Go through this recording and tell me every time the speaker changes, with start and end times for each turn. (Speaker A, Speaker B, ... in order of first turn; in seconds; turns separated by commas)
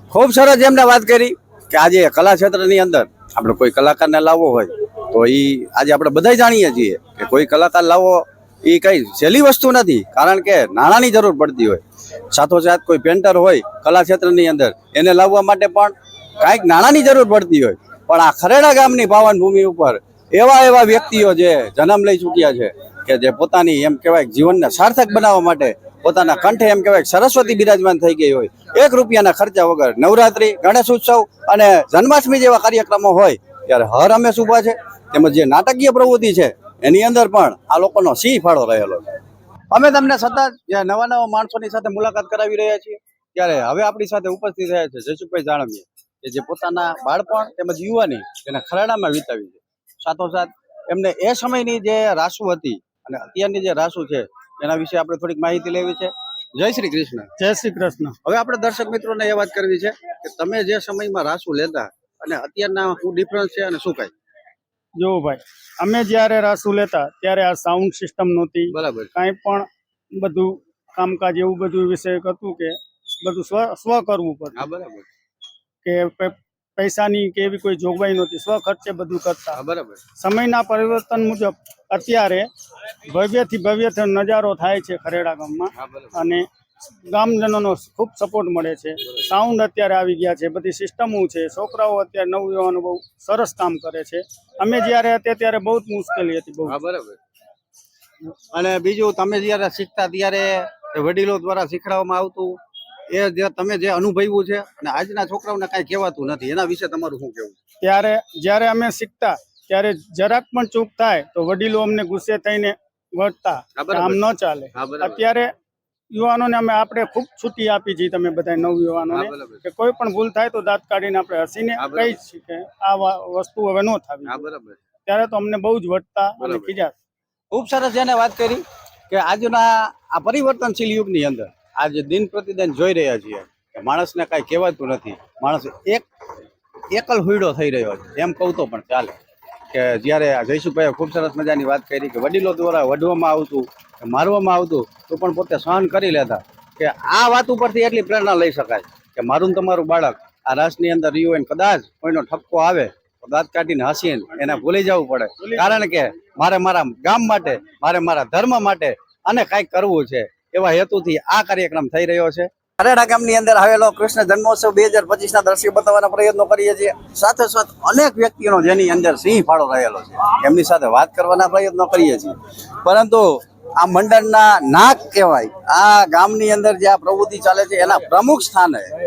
Speaker A: 0.1-39.1, Speaker A: 39.7-57.3, Speaker B: 57.4-58.2, Speaker A: 58.2-64.1, Speaker B: 65.0-74.7, Speaker A: 68.7-69.1, Speaker A: 74.5-75.0, Speaker B: 75.8-79.6, Speaker A: 79.5-80.0, Speaker B: 80.2-82.5, Speaker B: 83.1-86.5, Speaker A: 85.8-86.1, Speaker B: 87.1-96.8, Speaker A: 96.7-97.2, Speaker A: 98.5-102.6, Speaker A: 103.1-107.5, Speaker B: 107.8-115.5, Speaker A: 113.8-114.2, Speaker A: 114.7-115.2, Speaker B: 116.1-124.4, Speaker A: 119.1-119.6, Speaker A: 121.8-122.2, Speaker A: 124.2-124.8, Speaker B: 125.1-126.9, Speaker A: 126.4-126.7, Speaker A: 127.5-136.0, Speaker A: 136.9-139.2, Speaker A: 139.7-178.9